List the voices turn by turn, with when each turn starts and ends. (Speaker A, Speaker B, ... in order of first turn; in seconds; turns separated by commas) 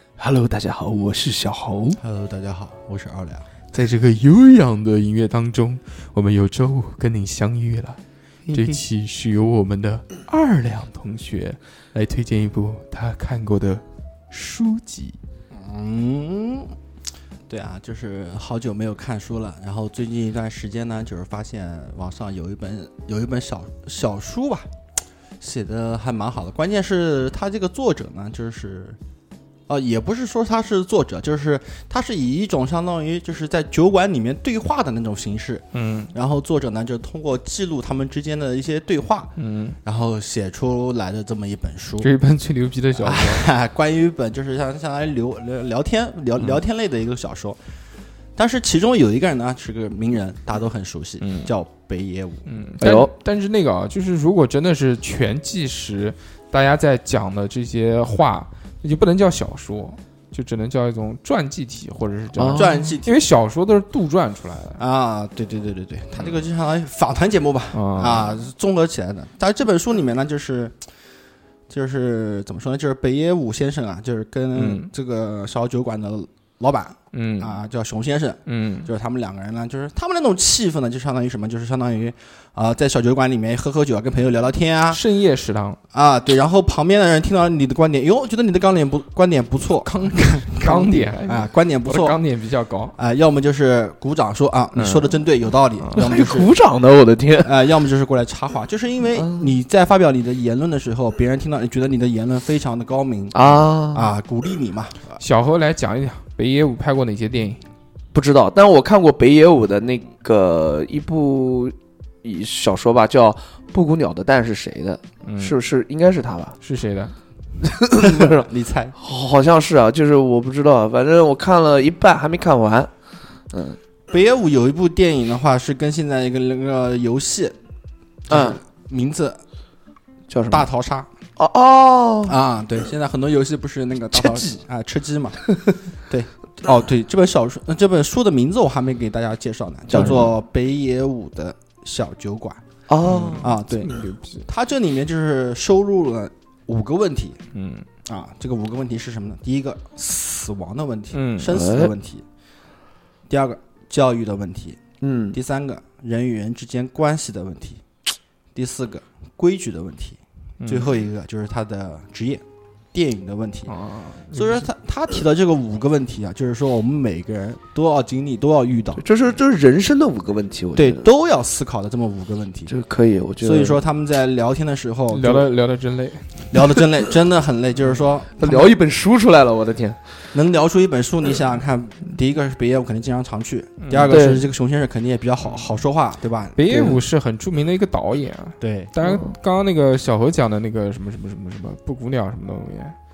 Speaker A: 0.2-2.0, Speaker B: 2.0-3.5, Speaker C: 3.7-8.0, Speaker C: 8.5-15.2, Speaker B: 15.5-16.7, Speaker B: 17.5-24.7, Speaker B: 25.4-29.0, Speaker B: 29.7-39.3, Speaker C: 35.7-36.1, Speaker C: 39.4-39.8, Speaker B: 39.9-42.1, Speaker C: 42.0-43.5, Speaker B: 43.0-47.6, Speaker B: 48.4-52.4, Speaker C: 51.2-51.5, Speaker C: 52.5-64.8, Speaker A: 52.8-53.1, Speaker A: 62.4-62.9, Speaker B: 62.5-63.1, Speaker B: 64.8-70.8, Speaker C: 66.2-66.4, Speaker C: 67.7-68.3, Speaker B: 71.7-85.0, Speaker C: 74.5-74.9, Speaker C: 77.1-77.6, Speaker C: 78.5-78.9, Speaker C: 84.9-85.8, Speaker B: 85.9-92.2, Speaker C: 89.8-93.0, Speaker B: 93.0-96.5, Speaker C: 94.7-95.2, Speaker C: 95.8-96.1, Speaker A: 96.0-97.7, Speaker B: 97.4-105.2, Speaker A: 99.1-99.6, Speaker A: 103.3-104.1, Speaker C: 105.2-107.6, Speaker A: 108.1-116.6, Speaker C: 115.2-115.6, Speaker C: 116.6-117.2, Speaker A: 117.6-122.9, Speaker B: 118.0-119.0, Speaker A: 123.5-123.8, Speaker B: 124.1-127.6, Speaker B: 128.3-129.4, Speaker A: 128.3-128.6, Speaker A: 130.3-130.7, Speaker B: 130.5-131.1, Speaker A: 131.4-132.4, Speaker B: 132.2-135.4, Speaker A: 134.1-134.5, Speaker B: 136.1-142.6, Speaker A: 139.9-140.3, Speaker A: 142.9-143.6, Speaker C: 143.1-144.5, Speaker B: 143.4-143.9, Speaker B: 144.5-147.4, Speaker C: 147.5-147.9, Speaker B: 148.1-152.2, Speaker C: 151.1-151.6, Speaker A: 151.4-151.9, Speaker B: 153.3-154.8, Speaker A: 155.0-155.4, Speaker B: 155.3-157.8, Speaker B: 158.6-162.4, Speaker C: 160.6-160.9, Speaker B: 162.9-163.7, Speaker C: 163.7-164.7, Speaker B: 164.3-169.0, Speaker A: 169.0-171.1, Speaker B: 170.8-172.7, Speaker A: 172.7-173.8, Speaker B: 173.4-175.5, Speaker C: 175.1-176.6, Speaker B: 176.5-178.7, Speaker A: 178.4-180.3, Speaker B: 180.3-186.6, Speaker C: 183.8-184.3, Speaker A: 184.1-184.5, Speaker C: 186.6-193.0, Speaker A: 186.7-187.0, Speaker B: 188.6-188.9, Speaker A: 189.0-189.3